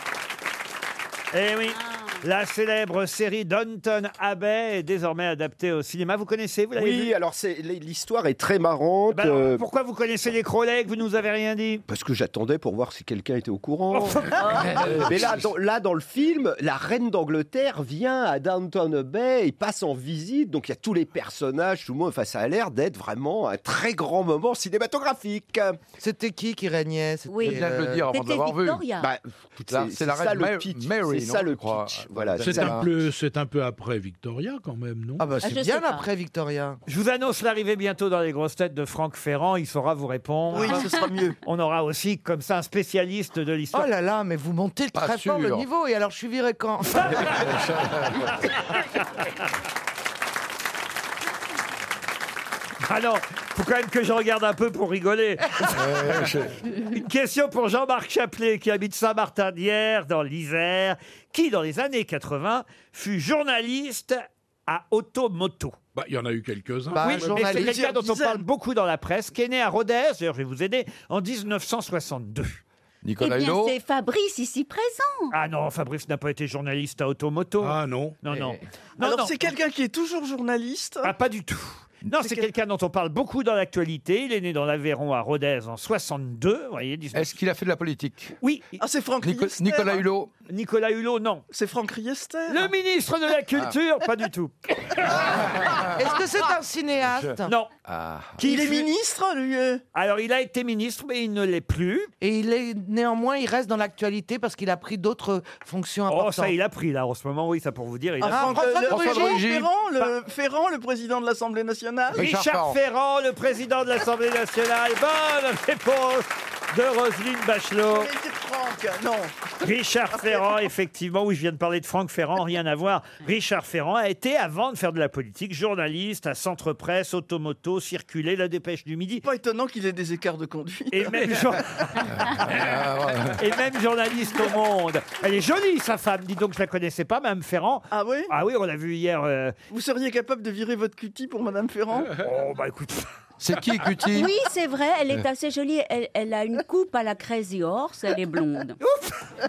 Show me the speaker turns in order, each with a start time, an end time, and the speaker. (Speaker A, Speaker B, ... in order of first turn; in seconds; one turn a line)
Speaker A: 1.3-7.1
Speaker B: 1.9-2.1
Speaker C: 6.8-9.6
Speaker A: 9.1-11.8
Speaker C: 11.9-25.8
Speaker A: 13.9-15.1
Speaker D: 26.0-28.1
Speaker B: 27.3-29.1
Speaker E: 27.4-28.9
Speaker C: 29.0-32.8
Speaker E: 29.7-32.9
Speaker F: 32.4-35.3
Speaker D: 35.2-36.8
Speaker B: 35.4-36.0
Speaker A: 36.9-40.8
Speaker B: 40.5-41.0
Speaker G: 40.5-41.4
Speaker A: 41.4-43.9
Speaker D: 43.7-47.5
Speaker E: 44.9-45.6
Speaker E: 47.2-48.5
Speaker A: 52.8-56.2
Speaker E: 55.7-56.6
Speaker A: 56.9-65.8
Speaker F: 65.9-67.6
Speaker D: 66.9-67.8
Speaker A: 67.0-72.6
Speaker G: 67.5-68.4
Speaker E: 73.0-73.8
Speaker B: 73.2-75.3
Speaker A: 75.3-79.5
Speaker F: 77.6-78.2
Speaker G: 79.0-81.1
Speaker A: 81.0-87.4
Speaker E: 82.0-82.4
Speaker E: 87.1-88.3
Speaker A: 88.4-88.8
Speaker G: 88.8-90.0
Speaker E: 89.2-90.3
Speaker A: 90.5-91.5
Speaker G: 91.5-92.7
Speaker A: 92.5-94.7
Speaker E: 95.2-96.0
Speaker D: 95.3-97.5
Speaker E: 97.1-98.5
Speaker A: 97.4-97.7
Speaker A: 98.4-98.9
Speaker G: 98.4-99.8
Speaker A: 99.9-102.1
Speaker D: 102.2-106.5
Speaker A: 106.1-108.8
Speaker G: 108.2-112.2
Speaker D: 108.2-109.5
Speaker E: 108.9-109.7
Speaker E: 112.1-112.8
Speaker A: 112.1-118.1
Speaker G: 117.9-120.5
Speaker A: 119.6-129.2
Speaker G: 129.2-131.3
Speaker A: 130.9-132.5
Speaker E: 132.1-133.4
Speaker A: 133.3-139.5
Speaker G: 137.9-138.3
Speaker G: 139.7-142.1
Speaker A: 142.2-143.1
Speaker E: 143.4-144.3
Speaker B: 144.1-148.8
Speaker A: 148.8-149.2